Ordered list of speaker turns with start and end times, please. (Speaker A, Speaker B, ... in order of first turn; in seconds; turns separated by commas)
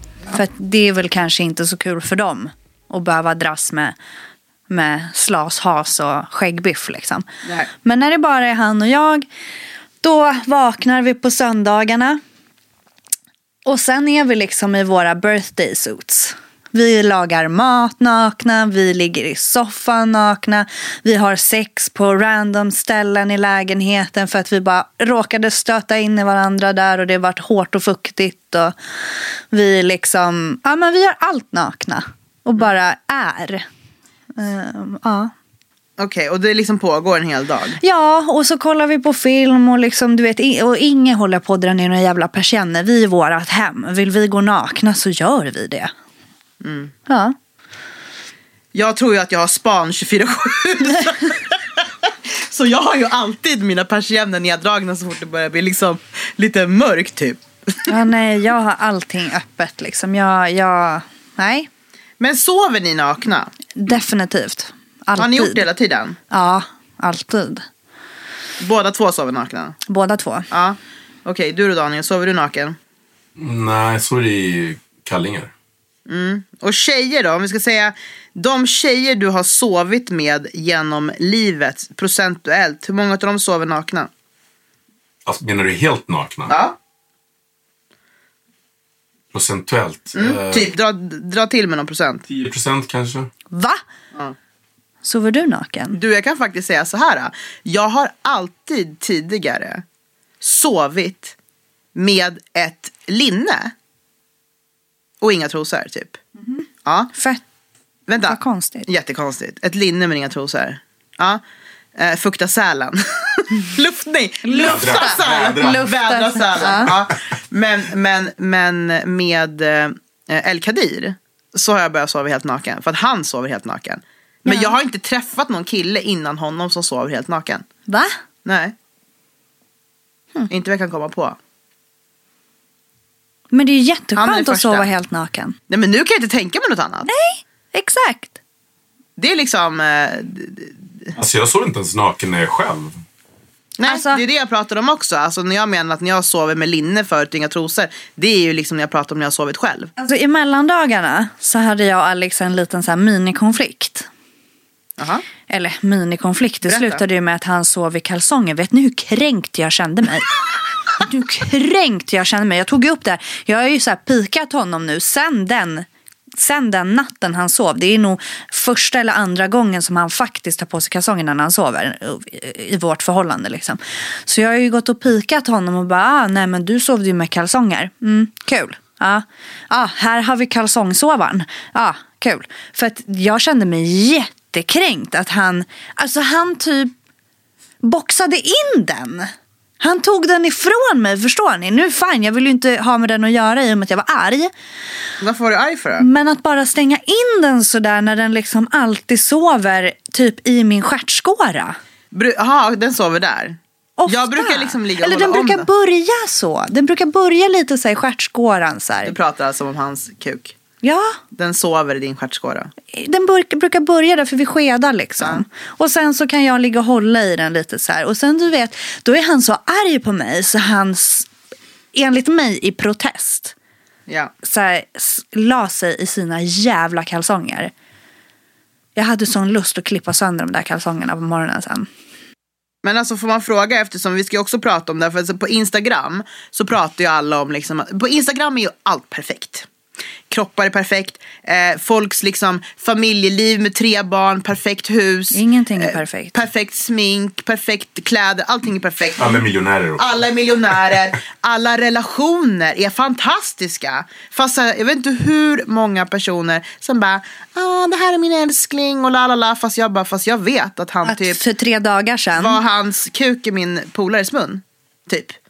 Speaker A: 0.3-4.0, Speaker A: 4.7-9.3, Speaker A: 10.0-12.2, Speaker A: 13.6-28.7, Speaker A: 29.5-33.6, Speaker A: 34.4-35.3, Speaker B: 36.0-37.8, Speaker A: 37.8-45.9, Speaker B: 46.6-46.9, Speaker A: 47.1-47.4, Speaker B: 48.7-57.9, Speaker A: 57.9-61.7, Speaker B: 62.2-63.5, Speaker A: 63.8-65.6, Speaker B: 65.2-66.2, Speaker A: 66.3-67.7, Speaker B: 68.6-69.8, Speaker A: 69.9-70.5, Speaker B: 70.5-72.8, Speaker C: 73.4-75.5, Speaker B: 76.1-84.1, Speaker C: 85.2-86.5, Speaker B: 86.5-86.8, Speaker C: 89.3-90.7, Speaker B: 90.2-92.2, Speaker C: 92.3-93.3, Speaker A: 93.5-93.8, Speaker A: 95.0-96.0, Speaker B: 95.9-99.8, Speaker B: 100.4-101.3, Speaker B: 101.9-103.7, Speaker B: 105.2-106.2, Speaker B: 106.8-107.1, Speaker A: 107.1-107.4, Speaker B: 108.1-111.4, Speaker A: 108.2-108.9, Speaker B: 112.0-127.6, Speaker A: 114.4-116.9, Speaker C: 114.6-115.9, Speaker A: 124.5-124.8, Speaker A: 127.9-128.2, Speaker B: 128.4-128.7, Speaker B: 130.5-131.4, Speaker A: 133.5-135.6, Speaker B: 134.2-134.9, Speaker B: 135.7-137.1, Speaker A: 137.1-138.3, Speaker B: 139.2-141.1, Speaker C: 141.2-142.9, Speaker B: 143.8-149.9, Speaker A: 143.8-144.2, Speaker A: 150.0-154.1, Speaker B: 155.0-155.2, Speaker A: 155.5-160.3, Speaker B: 156.7-157.0, Speaker A: 160.9-186.9, Speaker A: 187.8-194.5, Speaker B: 195.2-196.1, Speaker A: 196.0-201.8, Speaker B: 202.1-205.7, Speaker A: 204.0-209.1, Speaker B: 209.0-210.5, Speaker A: 210.8-211.2, Speaker B: 211.3-212.7, Speaker A: 212.9-221.3, Speaker A: 221.9-223.5, Speaker B: 224.1-224.3, Speaker A: 224.4-227.7, Speaker A: 228.9-231.9, Speaker B: 232.8-239.7, Speaker B: 240.3-249.4, Speaker A: 245.3-246.4, Speaker C: 249.2-250.1, Speaker B: 250.0-261.4, Speaker A: 261.0-262.6, Speaker B: 262.4-265.4